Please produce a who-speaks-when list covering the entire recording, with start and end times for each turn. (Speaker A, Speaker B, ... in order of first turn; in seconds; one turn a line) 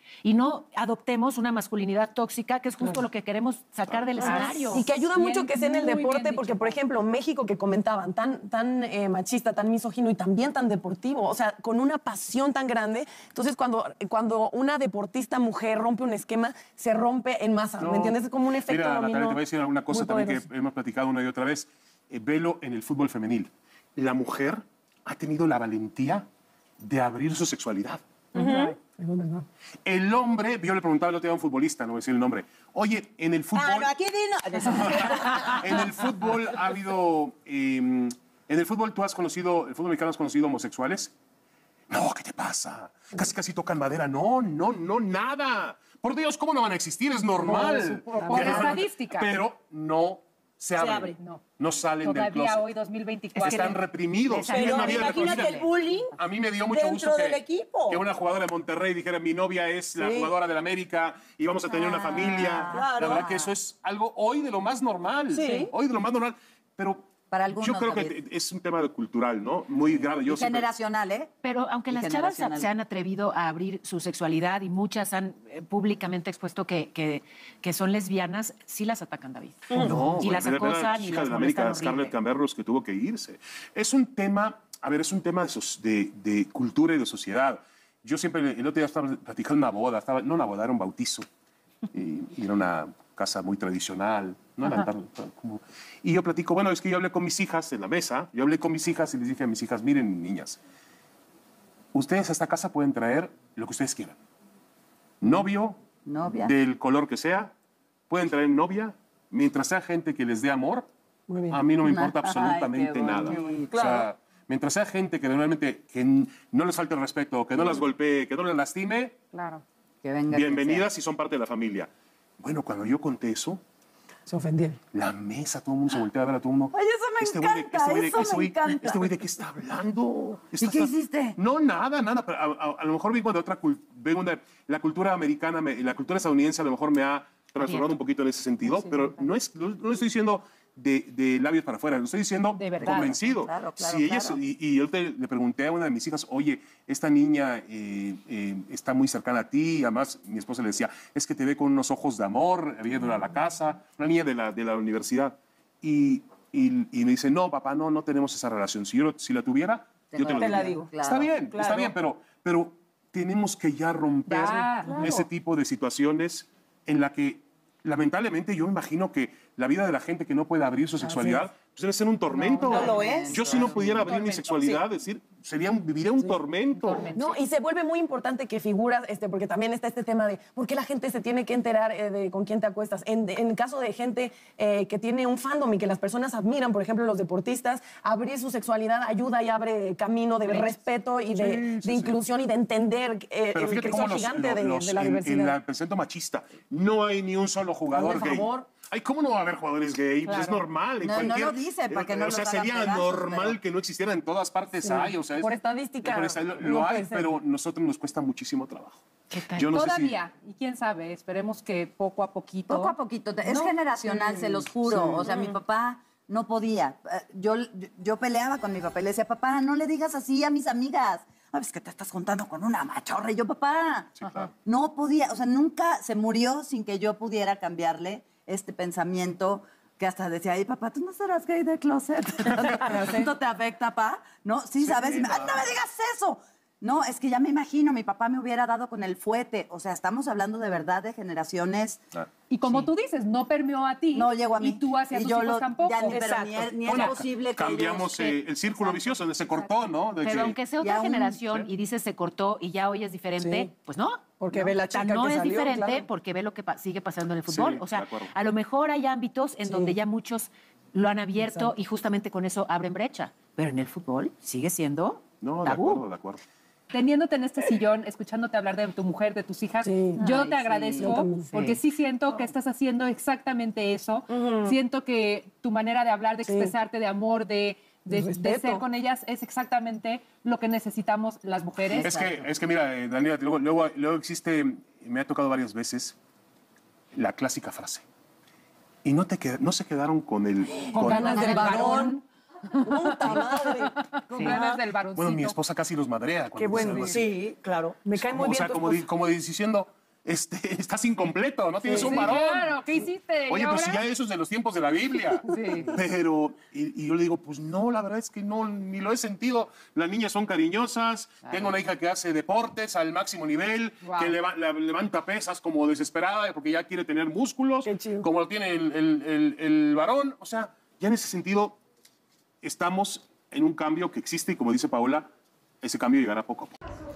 Speaker A: 0.2-4.9
Speaker B: 3.9-4.5
Speaker C: 4.2-6.7
Speaker D: 4.6-20.4
Speaker B: 17.8-26.2
Speaker B: 26.8-28.0
Speaker D: 28.3-29.4
Speaker E: 28.3-28.7
Speaker B: 29.8-33.9
Speaker E: 33.5-35.8
Speaker B: 34.6-41.1
Speaker B: 41.9-52.7
Speaker D: 47.4-48.8
Speaker C: 47.5-49.4
Speaker E: 50.8-51.1
Speaker C: 51.1-51.4
Speaker C: 52.0-53.8
Speaker B: 53.4-70.7
Speaker A: 54.3-55.7
Speaker E: 54.4-56.1
Speaker E: 56.7-58.0
Speaker F: 61.7-63.5
Speaker E: 62.7-63.3
Speaker E: 65.3-65.7
Speaker F: 67.3-68.2
Speaker F: 70.2-71.3
Speaker A: 71.4-82.1
Speaker F: 71.9-72.7
Speaker D: 79.7-80.0
Speaker B: 79.8-91.2
Speaker B: 91.9-100.6
Speaker B: 101.9-104.2
Speaker B: 105.2-105.8
Speaker F: 106.0-106.5
Speaker B: 106.4-107.5
Speaker B: 108.1-110.9
Speaker D: 111.3-111.6
Speaker B: 111.5-119.2
Speaker F: 111.8-113.8
Speaker E: 113.7-114.1
Speaker C: 119.3-119.6
Speaker F: 120.0-120.9
Speaker B: 120.3-121.9
Speaker B: 122.4-123.6
Speaker D: 124.3-124.8
Speaker B: 124.9-177.1
Speaker F: 126.7-129.2
Speaker F: 130.6-131.4
Speaker A: 137.6-137.9
Speaker C: 138.6-139.2
Speaker C: 142.5-143.2
Speaker F: 142.9-144.4
Speaker F: 160.1-161.4
Speaker E: 160.3-160.9
Speaker E: 161.5-161.9
Speaker C: 164.3-165.1
Speaker E: 164.8-165.2
Speaker D: 171.0-171.5
Speaker C: 172.3-174.5
Speaker F: 172.7-174.0
Speaker E: 172.7-173.7
Speaker E: 174.5-174.8
Speaker C: 176.3-177.4
Speaker D: 177.1-195.6
Speaker B: 191.3-192.2
Speaker B: 193.5-210.2
Speaker D: 197.9-198.7
Speaker C: 200.2-200.6
Speaker F: 201.0-203.6
Speaker D: 204.7-207.3
Speaker A: 209.3-209.7
Speaker C: 209.7-214.6
Speaker F: 212.7-242.1
Speaker D: 214.8-215.6
Speaker B: 224.2-224.5
Speaker B: 234.8-235.8
Speaker C: 242.5-246.6
Speaker A: 242.6-242.9
Speaker F: 244.1-249.7
Speaker B: 246.8-250.6
Speaker A: 250.2-266.0
Speaker F: 250.8-251.4
Speaker D: 253.4-253.7
Speaker D: 254.4-256.1
Speaker B: 257.5-258.3
Speaker D: 259.6-259.9
Speaker D: 261.4-261.7
Speaker B: 265.4-266.4
Speaker C: 266.9-282.3
Speaker D: 269.8-270.2
Speaker F: 270.2-271.2
Speaker D: 271.0-271.6
Speaker A: 271.5-271.8
Speaker D: 274.3-274.8
Speaker D: 276.4-276.7
Speaker D: 278.1-278.8
Speaker F: 281.8-282.4
Speaker B: 282.0-286.1
Speaker B: 287.1-288.0
Speaker B: 289.0-291.9
Speaker C: 290.9-292.2
Speaker D: 291.1-292.1
Speaker F: 291.1-291.6
Speaker E: 291.4-292.2
Speaker C: 292.7-295.6
Speaker D: 292.8-293.9
Speaker E: 294.5-294.8
Speaker B: 295.1-297.3
Speaker D: 296.5-297.3
Speaker E: 297.0-298.0
Speaker D: 298.0-299.1
Speaker B: 298.2-302.8
Speaker D: 301.9-302.3
Speaker C: 301.9-304.1
Speaker B: 303.5-321.8
Speaker C: 305.5-305.9
Speaker C: 314.0-314.4
Speaker D: 317.8-318.2
Speaker B: 322.6-325.3
Speaker B: 325.8-326.8